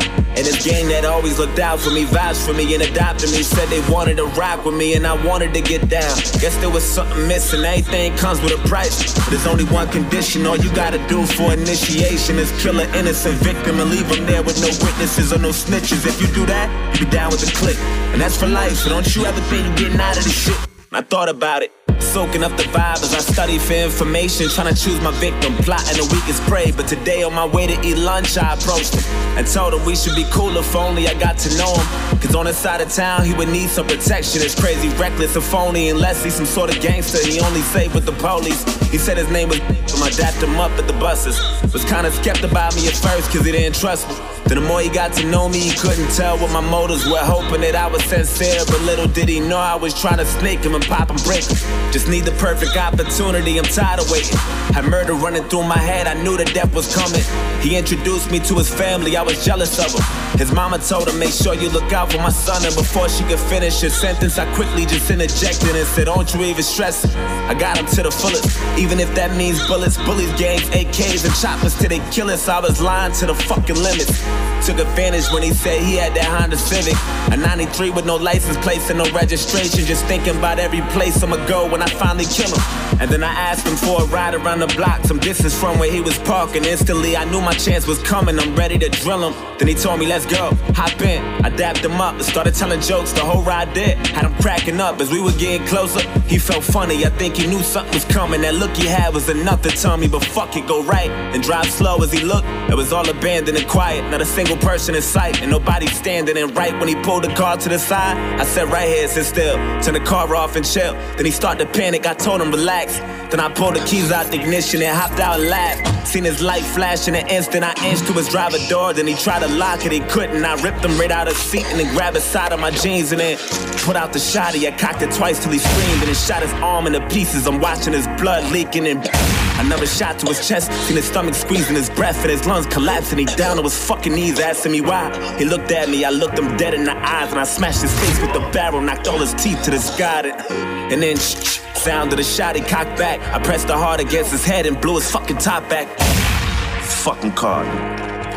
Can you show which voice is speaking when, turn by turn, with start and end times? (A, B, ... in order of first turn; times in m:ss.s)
0:00.3-2:26.0 A
2:26.8-2:27.8 A